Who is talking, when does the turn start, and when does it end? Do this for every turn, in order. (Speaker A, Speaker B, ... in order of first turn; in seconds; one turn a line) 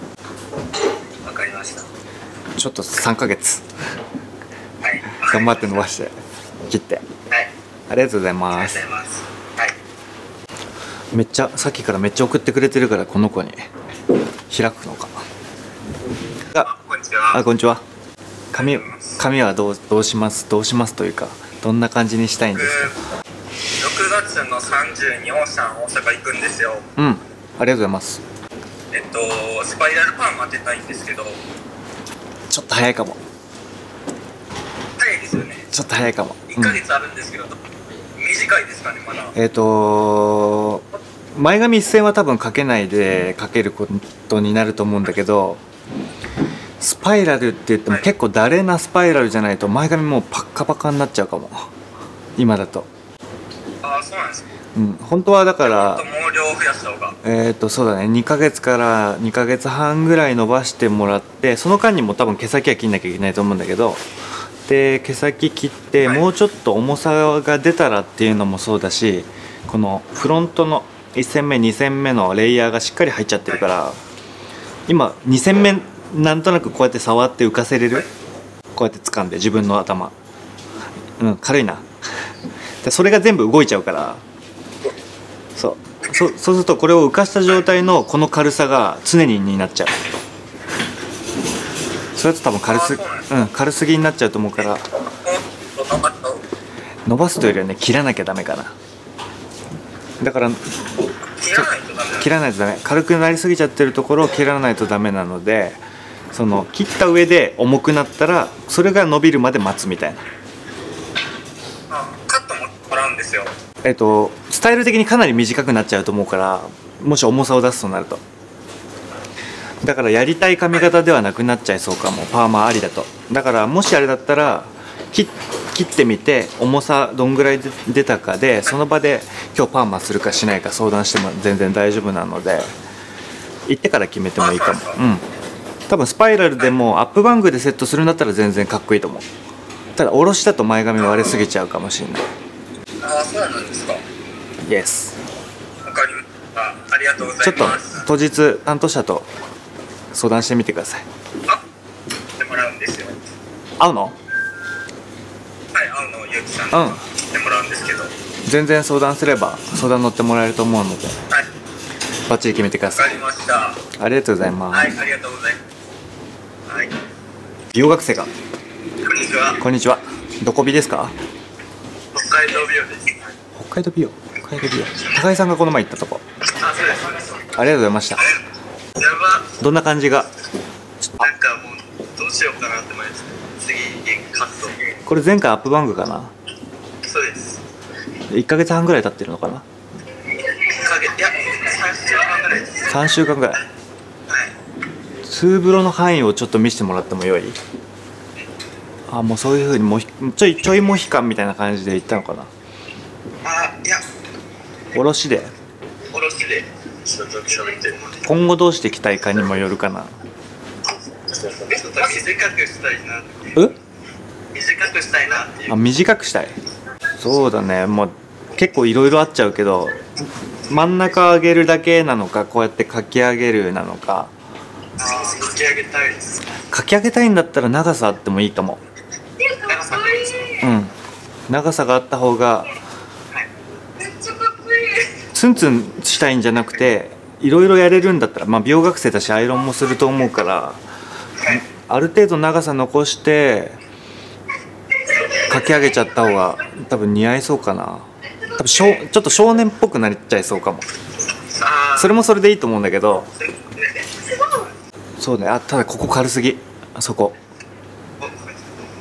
Speaker A: 1.2-1.9
Speaker B: 2.6-3.6
Speaker A: 4.8-5.9
Speaker B: 5.2-6.2
Speaker B: 6.7-7.0
Speaker B: 7.9-8.8
Speaker A: 8.5-9.8
Speaker B: 11.1-13.7
Speaker B: 14.5-15.2
Speaker A: 16.6-17.4
Speaker B: 17.3-17.8
Speaker B: 18.5-22.8
Speaker A: 18.6-19.2
Speaker A: 22.5-23.0
Speaker A: 23.8-26.9
Speaker B: 27.0-28.2
Speaker A: 28.9-31.4
Speaker B: 32.5-33.2
Speaker A: 35.0-35.7
Speaker B: 35.7-36.8
Speaker A: 36.5-37.6
Speaker A: 38.2-39.3
Speaker B: 39.3-40.8
Speaker B: 41.4-45.6
Speaker B: 46.8-51.7
Speaker B: 52.4-52.9
Speaker A: 53.8-54.5
Speaker B: 54.8-56.1
Speaker A: 55.6-57.2
Speaker B: 57.2-64.0
Speaker B: 64.7-74.0
Speaker B: 74.9-78.1
Speaker B: 78.8-80.2
Speaker B: 81.2-81.8
Speaker B: 82.8-84.2
Speaker B: 85.6-90.0
Speaker B: 92.2-94.9
Speaker A: 92.6-93.3
Speaker A: 95.2-96.4
Speaker B: 97.1-98.7
Speaker B: 100.2-100.6
Speaker A: 101.4-102.3
Speaker B: 101.5-105.8
Speaker B: 106.3-110.2
Speaker A: 111.9-113.5
Speaker B: 113.8-118.2
Speaker B: 119.8-132.8
Speaker B: 133.7-135.3
Speaker A: 134.4-135.0
Speaker B: 135.9-139.2
Speaker B: 140.0-142.2
Speaker A: 141.0-141.4
Speaker A: 143.0-144.0
Speaker B: 144.7-145.2
Speaker A: 145.8-148.1
Speaker B: 147.4-149.3
Speaker B: 150.1-151.1
Speaker A: 152.4-153.2
Speaker B: 153.8-154.2
Speaker A: 155.7-158.1
Speaker B: 156.7-157.1
Speaker B: 158.5-161.2
Speaker B: 162.3-163.2
Speaker A: 162.9-163.8
Speaker B: 163.9-165.0
Speaker A: 164.7-165.6
Speaker A: 166.7-166.9
Speaker B: 167.7-168.3
Speaker A: 169.0-169.6
Speaker B: 169.6-171.2
Speaker A: 172.1-173.3
Speaker B: 173.6-176.2
Speaker A: 176.5-177.6
Speaker B: 177.4-178.3
Speaker A: 178.2-178.4
Speaker A: 179.0-179.6
Speaker B: 179.6-180.3
Speaker B: 181.0-181.3
Speaker A: 181.2-185.0
Speaker B: 185.1-186.3
Speaker A: 187.0-187.6
Speaker B: 188.3-189.7
Speaker A: 190.4-193.1
Speaker B: 192.9-193.6
Speaker A: 194.3-194.5
Speaker B: 195.2-197.6
Speaker B: 199.1-202.5
Speaker A: 203.4-204.0
Speaker B: 204.9-205.5
Speaker A: 206.1-208.2
Speaker B: 208.2-210.1
Speaker A: 211.3-213.6
Speaker A: 214.5-215.7
Speaker B: 215.7-216.5
Speaker B: 217.2-220.0
Speaker B: 220.7-224.3
Speaker A: 225.0-226.4
Speaker B: 226.7-228.8
Speaker A: 229.4-230.7
Speaker B: 230.5-230.9
Speaker B: 231.5-232.7
Speaker A: 234.0-235.1
Speaker B: 235.3-240.8
Speaker B: 241.4-243.8
Speaker B: 245.5-250.9
Speaker A: 251.5-252.2
Speaker B: 252.0-253.3
Speaker A: 253.4-254.7
Speaker B: 255.2-257.4